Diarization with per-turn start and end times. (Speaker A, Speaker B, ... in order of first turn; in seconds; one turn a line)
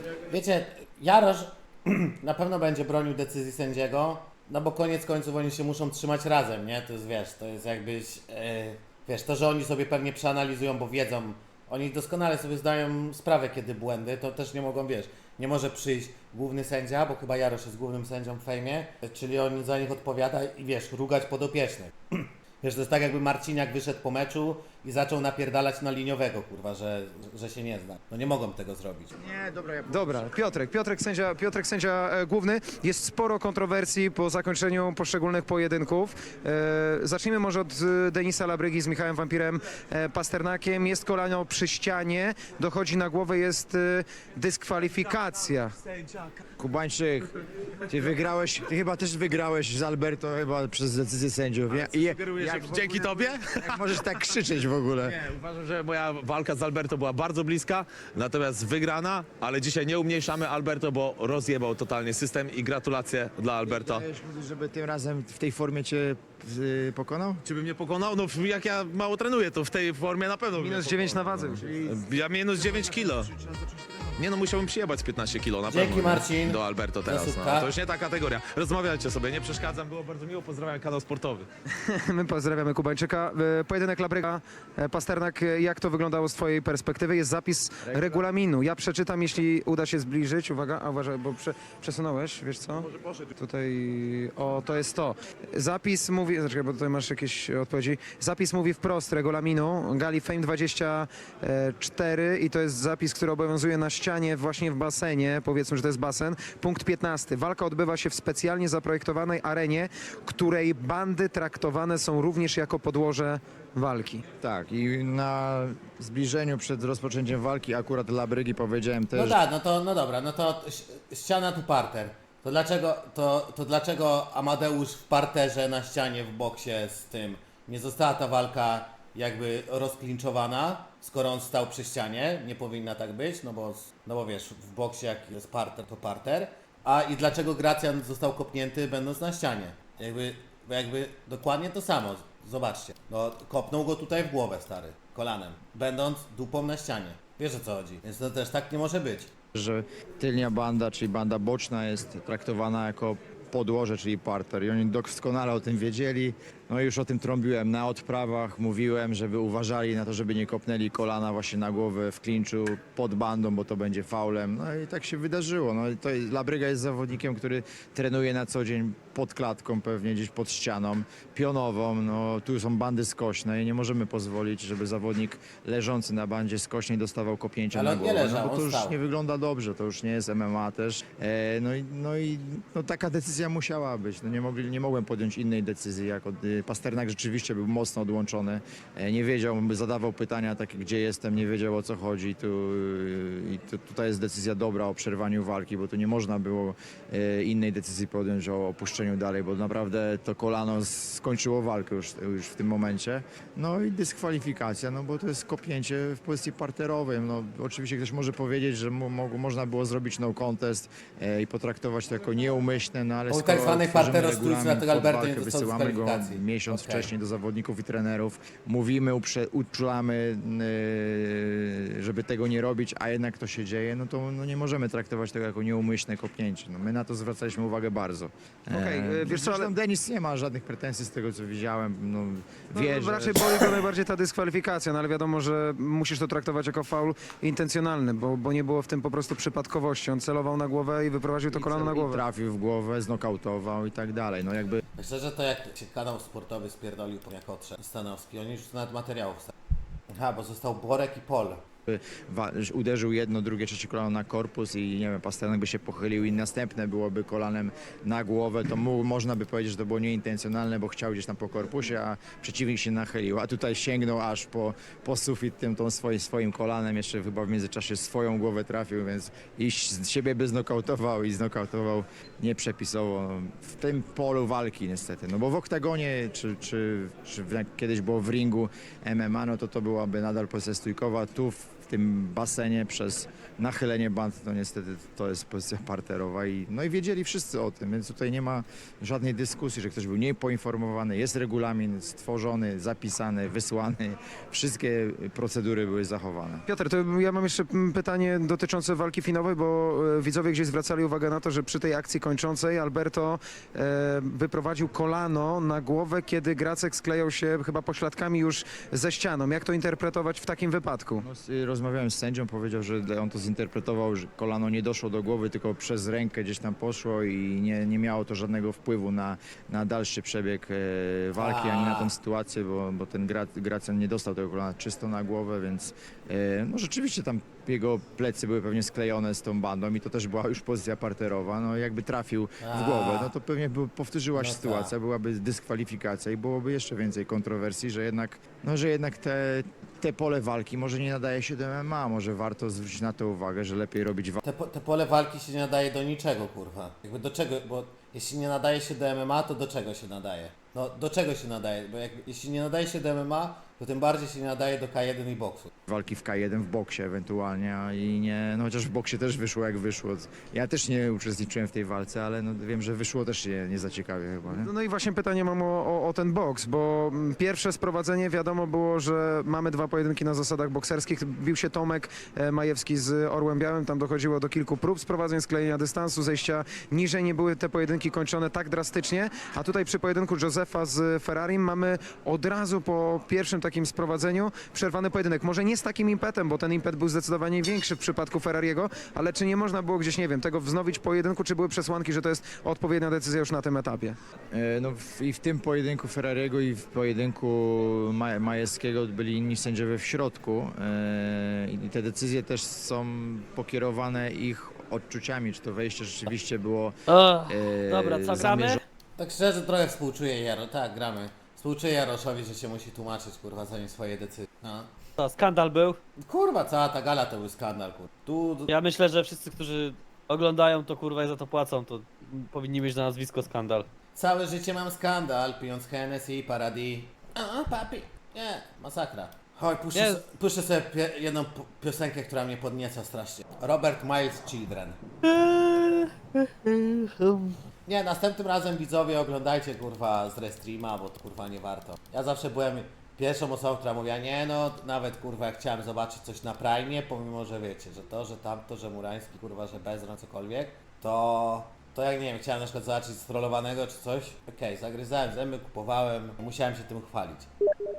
Speaker A: 0.3-29.1
Speaker B: 29.2-30.5
Speaker C: 29.9-45.7
Speaker D: 45.9-46.4
Speaker B: 46.6-47.3
Speaker B: 47.9-55.2
Speaker D: 51.7-54.0
Speaker D: 55.0-64.0
Speaker B: 63.6-67.4
Speaker D: 67.4-73.3
Speaker C: 70.6-71.7
Speaker B: 70.9-74.2
Speaker D: 74.2-81.5
Speaker A: 75.7-77.7
Speaker C: 81.7-114.2
Speaker B: 87.8-88.2
Speaker B: 114.4-119.4
Speaker A: 119.1-149.3
Speaker B: 149.5-233.7
Speaker A: 177.7-178.9
Speaker A: 213.3-217.1
Speaker C: 228.7-229.7
Speaker C: 232.7-242.2
Speaker B: 241.5-244.8
Speaker A: 245.0-249.5
Speaker A: 250.1-251.6
Speaker B: 251.9-296.6
Speaker C: 296.6-311.2
Speaker B: 311.2-344.4
Speaker A: 321.4-322.1
Speaker A: 332.6-333.3
Speaker A: 334.3-334.9
Speaker A: 344.4-355.7
Speaker B: 355.9-364.7
Speaker C: 364.5-394.2
Speaker B: 394.5-408.8
Speaker E: 407.1-408.8
Speaker A: 409.2-414.9
Speaker E: 415.2-416.0
Speaker A: 416.2-418.7
Speaker E: 418.7-423.9
Speaker A: 424.1-435.0
Speaker E: 429.9-430.2
Speaker E: 435.3-437.6
Speaker A: 437.9-457.5